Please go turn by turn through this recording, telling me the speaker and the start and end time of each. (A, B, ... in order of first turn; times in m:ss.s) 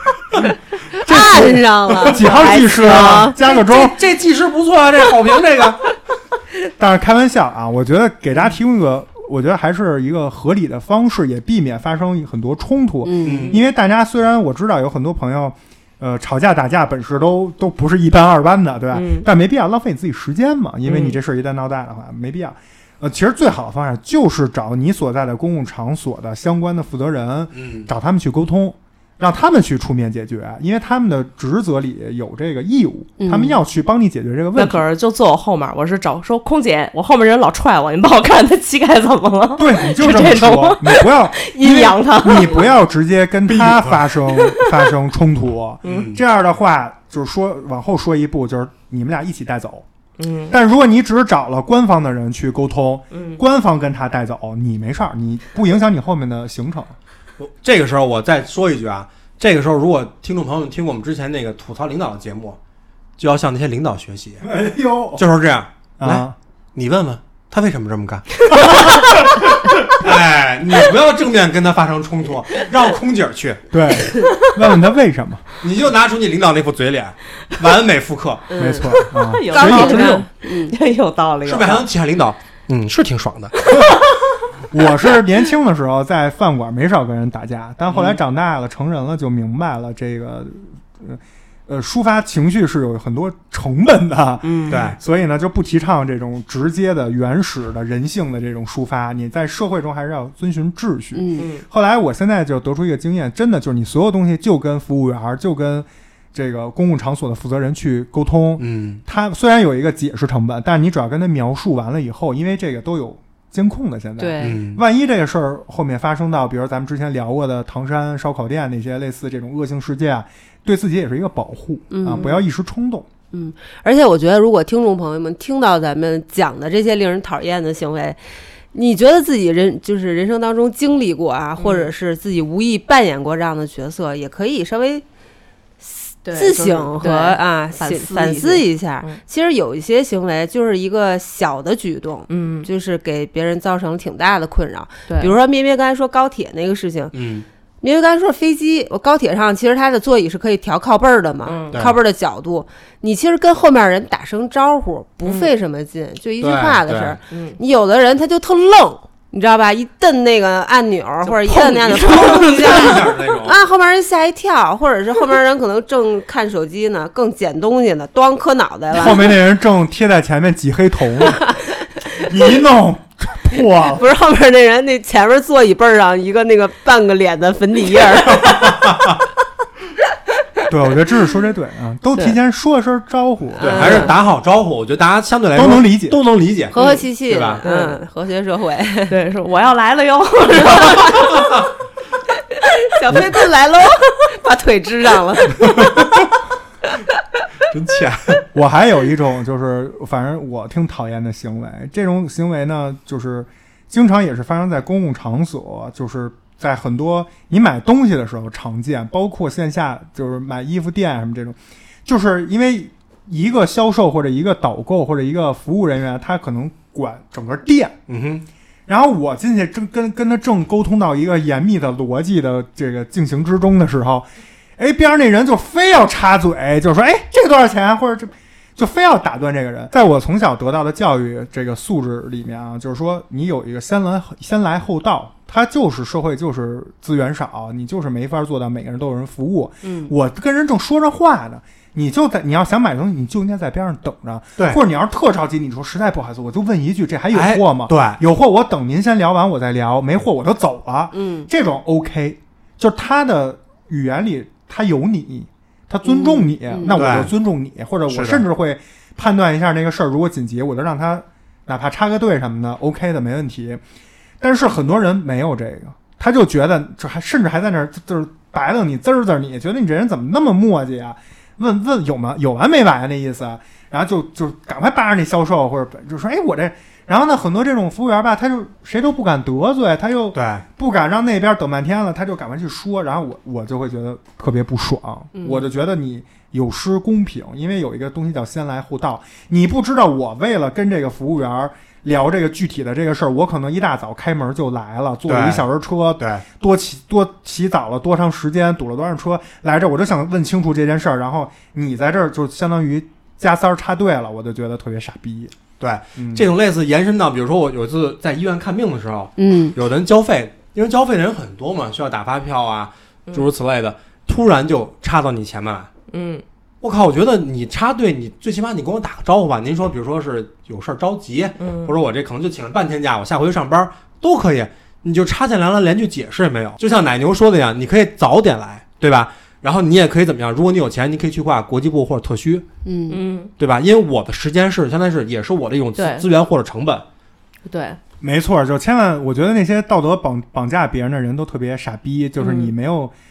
0:01.0-0:03.4 A
0:01.0-0:04.0 B
0:01.9-0:02.2 C
0:02.9-0:05.8 C
0:06.8-0:34.8 B
0:13.0-0:13.5 A
0:13.2-0:13.6 C
0:18.9-0:19.3 D
0:20.8-0:21.2 D
0:27.5-0:27.9 C
0:33.2-0:33.6 A
0:34.6-0:42.6 D
0:39.6-0:49.8 B
0:43.5-0:44.4 C
0:45.8-0:46.2 C
0:50.2-0:50.5 D
0:50.5-0:56.9 B
0:53.1-0:53.4 D
0:57.4-1:02.6 C
1:03.2-1:04.5 C
1:04.4-1:05.2 B
1:05.2-1:09.2 C
1:06.0-1:06.3 B
1:08.5-1:09.1 B
1:09.9-1:13.6 C
1:13.7-1:15.4 B
1:15.6-1:18.4 C
1:18.5-1:18.9 A
1:18.6-1:20.2 B
1:19.1-1:21.8 D
1:19.5-1:20.7 A
1:21.4-1:23.8 C
1:24.7-2:03.1 B
1:27.9-1:28.2 C
1:34.4-1:34.8 D
1:34.7-1:35.0 C
1:41.1-1:41.4 A
1:41.4-1:41.6 D
1:48.6-1:49.0 C
1:54.2-1:54.6 A
1:54.4-1:54.8 C
2:01.9-2:02.4 A
2:03.3-2:08.2 A
2:08.7-2:15.0 A
2:11.6-2:11.9 D
2:15.8-2:27.2 A
2:16.2-2:19.2 D
2:22.3-2:22.7 D
2:25.1-2:25.3 D
2:27.1-2:27.4 C
2:27.8-2:49.3 A
2:31.4-2:31.8 D
2:35.2-2:35.5 D
2:36.4-2:37.2 C
2:37.3-2:37.6 D
2:41.2-2:43.0 D
2:41.8-2:43.6 C
2:48.9-2:51.4 B
2:51.2-2:51.6 A
2:52.2-2:54.0 B
2:54.0-2:58.8 A
2:58.4-2:59.1 C
3:00.7-3:04.1 B
3:03.6-3:04.1 A
3:03.6-3:07.6 C
3:05.5-3:06.2 B
3:06.7-3:07.1 D
3:06.7-3:09.1 A
3:07.6-3:08.0 D
3:09.1-3:11.4 D
3:10.6-3:11.2 A
3:12.8-3:15.8 A
3:15.7-3:16.3 C
3:17.7-3:18.4 C
3:18.5-3:38.0 B
3:38.1-3:38.4 C
3:38.9-4:23.8 B
3:59.8-4:00.1 D
4:07.3-4:08.2 C
4:11.1-4:11.5 A
4:16.0-4:17.0 A
4:16.9-4:17.3 C
4:18.1-4:18.4 C
4:24.4-5:05.5 B
4:40.3-4:40.6 C
4:55.3-4:55.6 C
5:05.8-5:15.9 C
5:06.2-5:06.5 B
5:09.4-5:09.7 A
5:16.1-5:16.4 D
5:16.8-5:32.6 C
5:21.6-5:21.9 D
5:32.8-5:33.2 A
5:33.1-5:33.5 D
5:33.6-5:37.0 C
5:36.0-5:36.2 D
5:37.6-5:38.0 D
5:38.2-5:43.1 B
5:42.4-5:42.7 D